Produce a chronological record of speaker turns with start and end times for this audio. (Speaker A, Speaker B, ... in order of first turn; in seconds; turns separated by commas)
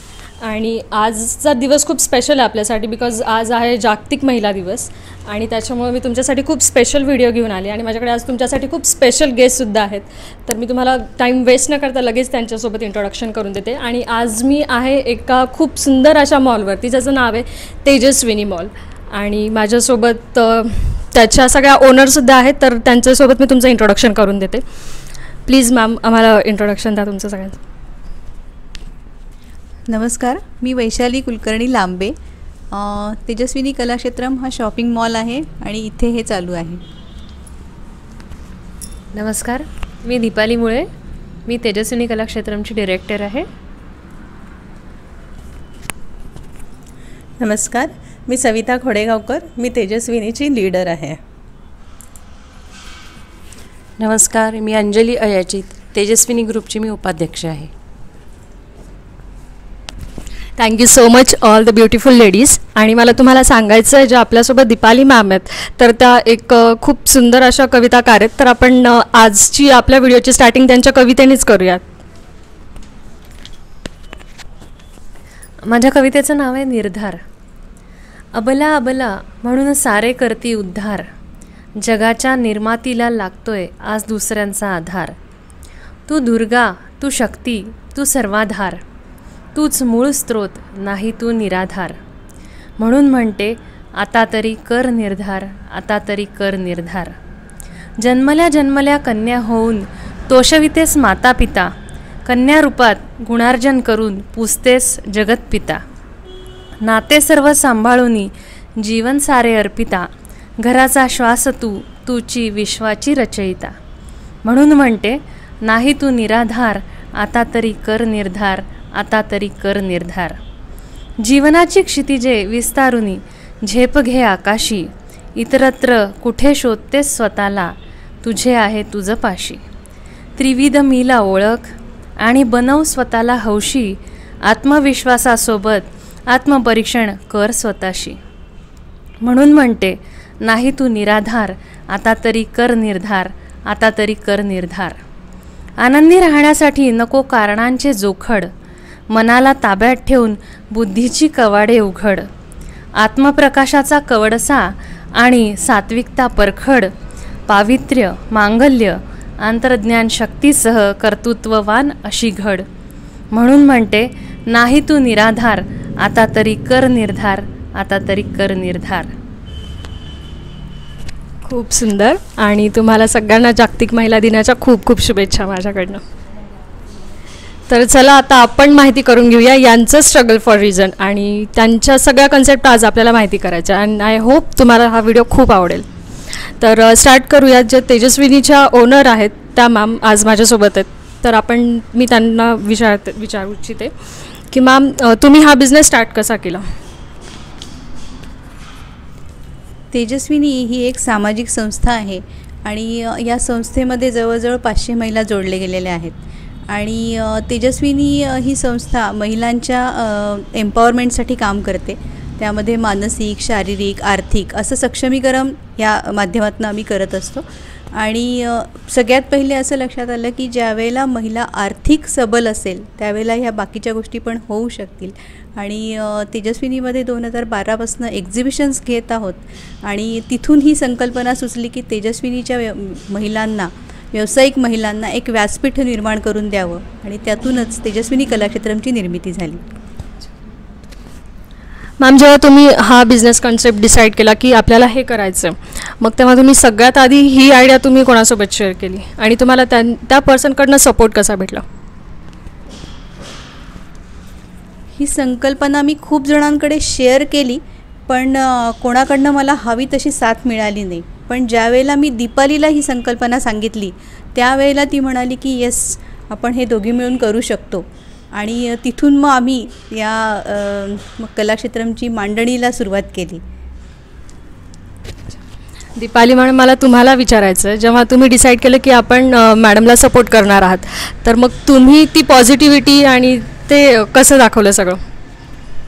Speaker A: 0.4-24.6, Speaker A: 25.4-27.6, Speaker B: 29.9-32.1, Speaker B: 32.7-36.8, Speaker C: 39.1-40.9, Speaker C: 41.5-43.5, Speaker D: 47.4-51.2, Speaker E: 54.0-57.7, Speaker A: 60.6-71.8, Speaker C: 75.6-77.2, Speaker C: 78.3-81.1, Speaker C: 81.8-85.1, Speaker C: 86.1-88.8, Speaker C: 89.5-92.0, Speaker C: 92.8-97.1, Speaker C: 98.0-101.7, Speaker C: 102.2-105.8, Speaker C: 106.8-110.1, Speaker C: 110.6-113.7, Speaker C: 114.4-120.4, Speaker C: 121.2-129.6, Speaker C: 130.3-138.2, Speaker C: 139.2-145.0, Speaker C: 145.8-148.5, Speaker C: 149.1-152.3, Speaker C: 153.0-156.9, Speaker C: 157.5-162.7, Speaker C: 163.3-169.1, Speaker A: 171.4-176.0, Speaker A: 177.7-185.8, Speaker A: 186.6-193.9, Speaker A: 194.5-196.6, Speaker B: 199.9-239.6, Speaker A: 242.0-251.6, Speaker B: 254.9-273.4, Speaker A: 275.9-285.0